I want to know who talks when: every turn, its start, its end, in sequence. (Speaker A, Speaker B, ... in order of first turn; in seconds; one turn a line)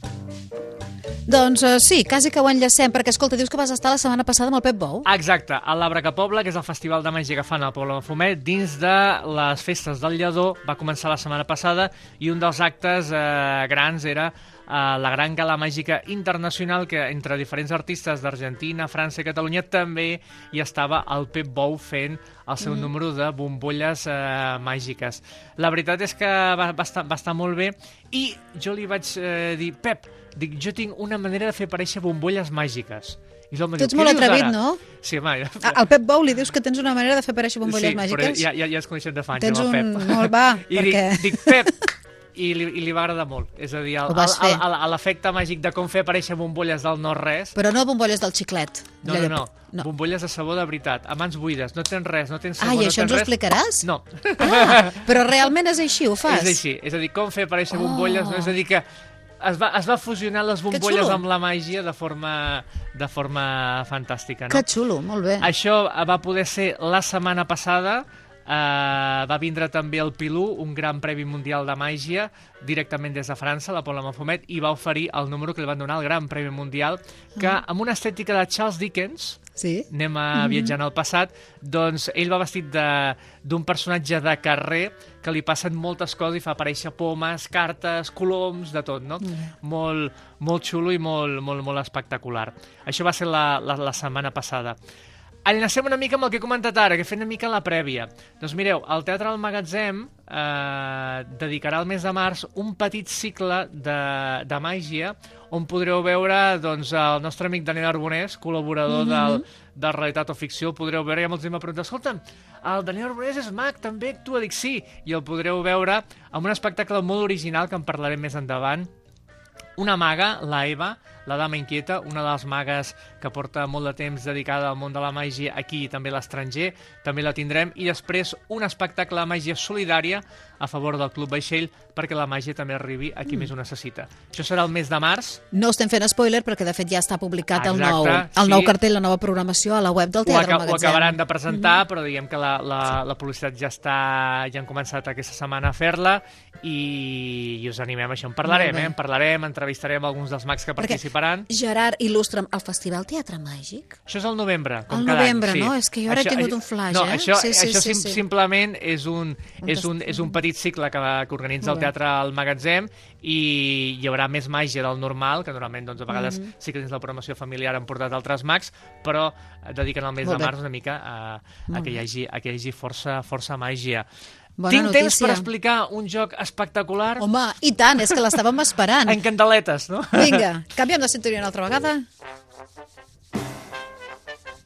Speaker A: 1.3-5.1
Speaker B: 5.0-35.8
Speaker A: 33.8-34.9
Speaker A: 35.6-38.5
Speaker B: 37.6-47.6
Speaker A: 39.4-41.9
Speaker A: 44.1-44.6
Speaker A: 47.5-49.9
Speaker B: 49.0-53.3
Speaker A: 52.6-53.9
Speaker B: 53.8-55.5
Speaker A: 54.4-56.6
Speaker B: 56.2-58.9
Speaker A: 57.7-58.6
Speaker B: 59.4-64.7
Speaker A: 60.7-61.2
Speaker A: 64.5-65.5
Speaker B: 65.4-94.8
Speaker A: 79.6-80.8
Speaker A: 89.2-89.5
Speaker B: 95.5-118.9
Speaker A: 108.9-109.4
Speaker B: 119.8-135.4
Speaker A: 135.5-141.8
Speaker B: 137.5-138.8
Speaker B: 140.2-151.5
Speaker A: 148.4-148.9
Speaker A: 150.8-154.0
Speaker B: 154.1-174.1
Speaker A: 154.9-158.2
Speaker A: 159.6-160.4
Speaker A: 161.6-161.9
Speaker A: 166.1-166.5
Speaker A: 170.2-170.5
Speaker A: 171.7-171.9
Speaker A: 174.6-175.5
Speaker B: 174.7-177.3
Speaker A: 177.2-179.2
Speaker B: 179.1-180.5
Speaker A: 180.1-182.0